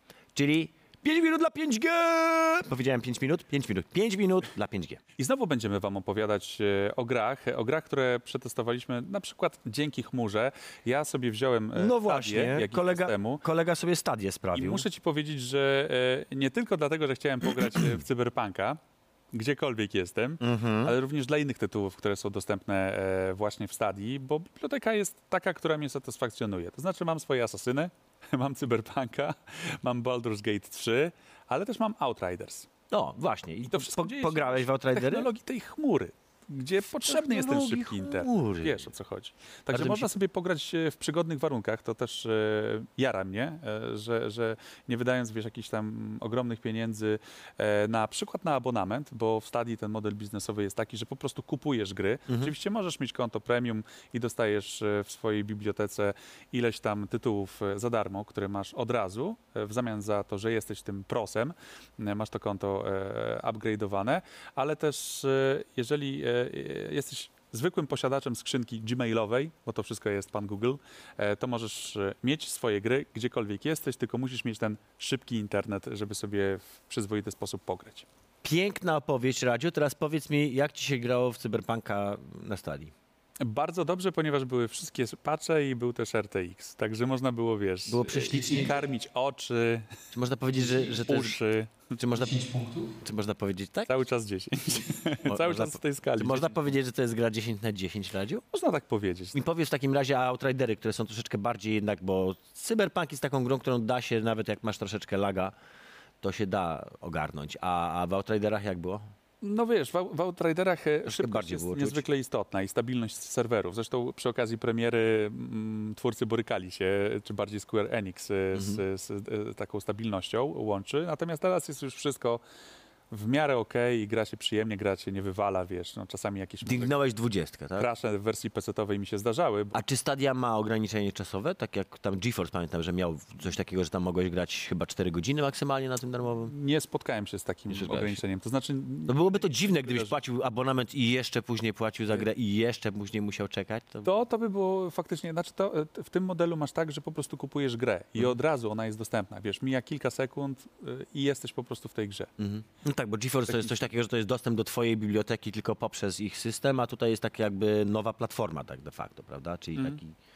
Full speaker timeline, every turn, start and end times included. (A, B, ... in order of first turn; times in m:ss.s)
0:00.3-0:05.0 A
0:05.2-0:13.4 B
0:11.7-0:14.8 A
0:14.5-0:18.8 B
0:19.3-0:32.7 B
0:20.4-0:21.0 A
0:32.9-0:35.3 A
0:33.6-1:18.1 B
0:37.0-0:38.9 A
0:39.7-0:40.1 A
0:52.3-0:52.5 A
1:18.4-1:22.9 A
1:23.4-1:29.9 B
1:27.9-1:28.8 A
1:30.1-1:31.4 A
1:30.6-1:32.0 B
1:32.0-1:33.9 A
1:33.9-1:36.7 B
1:35.2-1:38.4 A
1:38.5-1:39.3 B
1:39.3-1:45.5 A
1:46.2-1:49.0 A
1:49.4-2:02.4 B
1:51.0-1:52.0 A
1:58.5-1:58.8 A
2:03.1-2:06.9 B
2:06.6-2:07.9 A
2:07.8-2:09.8 B
2:09.7-2:16.5 A
2:16.5-2:20.1 B
2:17.7-2:18.2 A
2:19.1-2:24.1 A
2:24.0-2:32.3 B
2:32.4-2:40.1 A